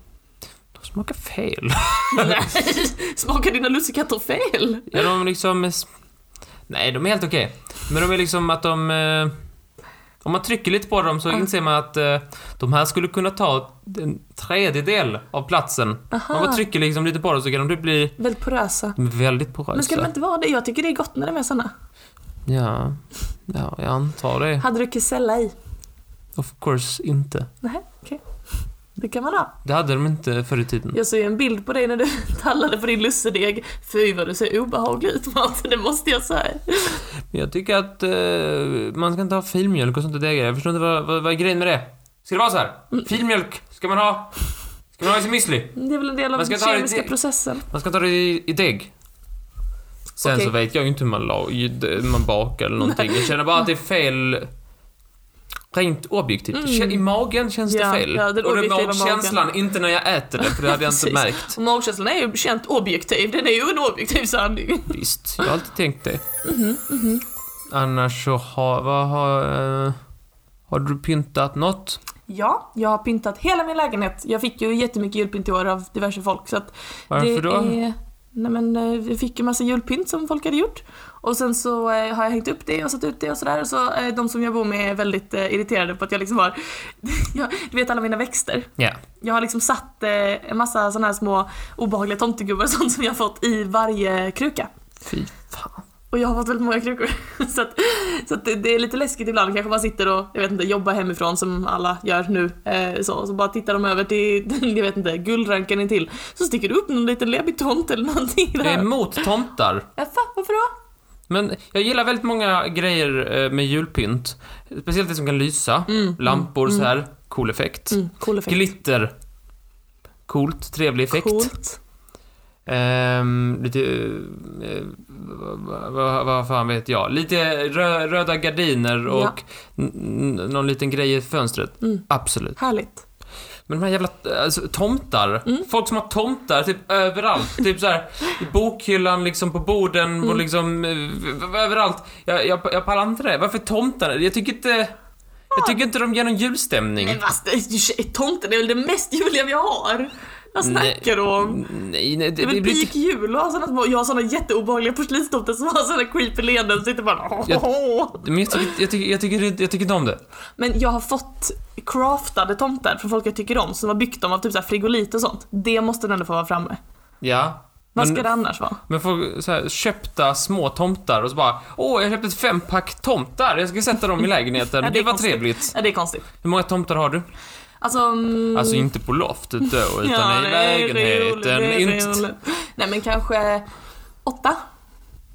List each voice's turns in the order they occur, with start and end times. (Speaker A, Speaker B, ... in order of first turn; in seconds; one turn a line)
Speaker A: 0.8-2.4
Speaker B: 2.1-5.1
Speaker A: 4.9-5.9
Speaker A: 6.7-9.3
Speaker A: 10.2-18.2
Speaker B: 16.1-16.6
Speaker B: 18.2-19.0
Speaker A: 19.0-20.1
Speaker B: 19.7-21.7
Speaker A: 22.5-24.6
Speaker B: 24.6-25.5
Speaker A: 26.4-27.5
Speaker B: 27.6-28.2
Speaker B: 29.0-29.5
Speaker A: 29.6-31.0
Speaker B: 30.9-37.0
Speaker A: 37.3-44.4
Speaker A: 44.9-45.8
Speaker B: 45.8-47.7
Speaker A: 46.4-47.1
Speaker A: 47.7-48.9
Speaker B: 50.2-50.5
Speaker A: 50.2-54.5
Speaker B: 52.8-53.4
Speaker A: 55.7-61.6
Speaker B: 56.5-57.0
Speaker B: 57.7-59.5
Speaker B: 60.4-65.0
Speaker A: 64.9-66.2
Speaker B: 66.4-67.2
Speaker A: 67.7-70.0
Speaker A: 70.7-72.0
Speaker B: 72.3-88.7
Speaker A: 77.1-77.8
Speaker B: 89.2-94.7
Speaker A: 95.0-95.8
Speaker B: 96.1-109.4
Speaker A: 108.6-109.9
Speaker B: 110.0-110.7
Speaker A: 111.3-119.1
Speaker B: 115.9-116.9
Speaker B: 117.9-118.7
Speaker A: 120.3-121.5
Speaker B: 121.1-121.8
Speaker A: 122.7-132.6
Speaker B: 129.1-129.4
Speaker B: 131.8-133.0
Speaker A: 133.7-144.9
Speaker B: 145.5-145.9
Speaker A: 145.5-147.2
Speaker B: 147.0-151.7
Speaker A: 150.6-152.9
Speaker B: 152.4-158.8
Speaker A: 157.5-160.2
Speaker B: 160.6-166.8
Speaker A: 167.2-168.3
Speaker B: 167.9-168.8
Speaker A: 168.9-175.8
Speaker B: 174.8-176.3
Speaker A: 176.4-177.3
Speaker B: 177.8-178.9
Speaker A: 178.5-182.2
Speaker B: 179.9-183.7
Speaker B: 184.2-184.6